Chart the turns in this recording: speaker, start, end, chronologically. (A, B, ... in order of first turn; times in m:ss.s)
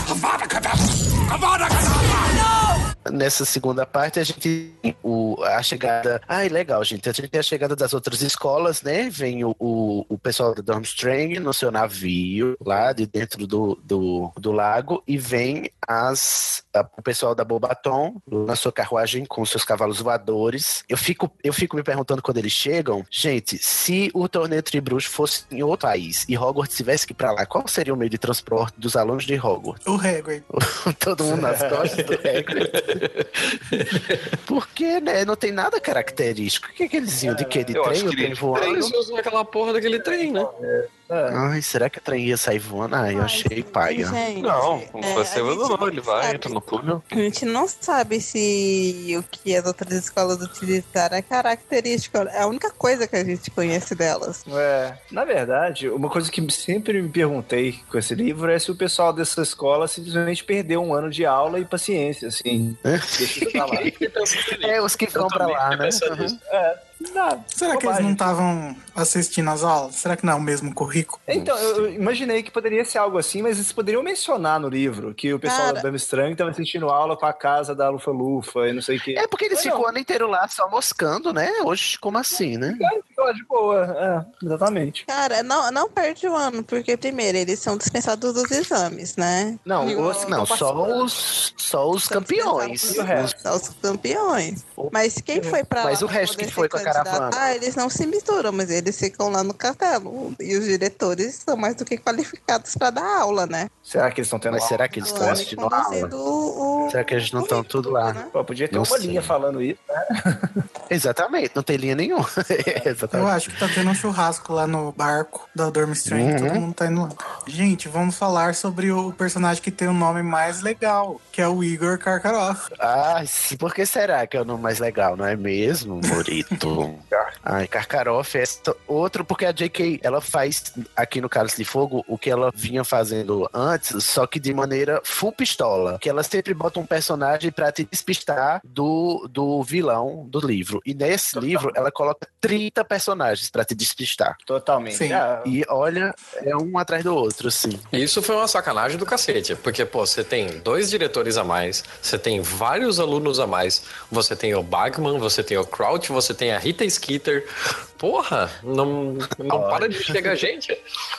0:03.0-0:29.8 A
0:29.8-0:30.4 B
0:30.5-0:33.0 A
0:31.2-0:32.0 C
0:31.8-0:34.4 D
0:34.4-0:38.9 A
0:37.2-0:37.7 C
0:37.7-0:38.9 E
0:38.6-0:40.5 D
0:40.0-0:41.4 C
0:41.3-0:44.2 A
0:43.1-0:46.6 F
0:44.4-0:47.0 E
0:47.1-0:54.4 F
0:54.5-1:03.9 C
1:02.8-1:03.9 A
1:03.6-1:06.3 D
1:04.5-1:06.4 A
1:06.5-1:08.3 C
1:07.5-1:11.2 B
1:11.3-1:19.9 C
1:11.3-1:11.9 A
1:15.4-1:15.8 F
1:19.1-1:22.9 A
1:22.7-1:25.0 C
1:25.1-1:30.3 F
1:29.6-1:31.0 C
1:30.0-1:33.3 A
1:32.1-1:43.7 F
1:32.9-1:33.4 C
1:35.7-1:37.4 A
1:43.8-1:45.4 C
1:44.5-1:46.1 A
1:45.0-1:48.3 F
1:46.9-1:48.2 A
1:48.3-1:50.6 C
1:48.7-1:49.3 A
1:50.9-1:53.6 A
1:53.1-2:02.6 B
1:56.1-1:56.6 A
2:02.8-2:24.4 A
2:21.3-2:21.7 C
2:24.5-2:25.5 C
2:24.9-2:25.2 B
2:25.4-2:27.8 A
2:27.9-2:40.8 D
2:39.5-2:40.3 A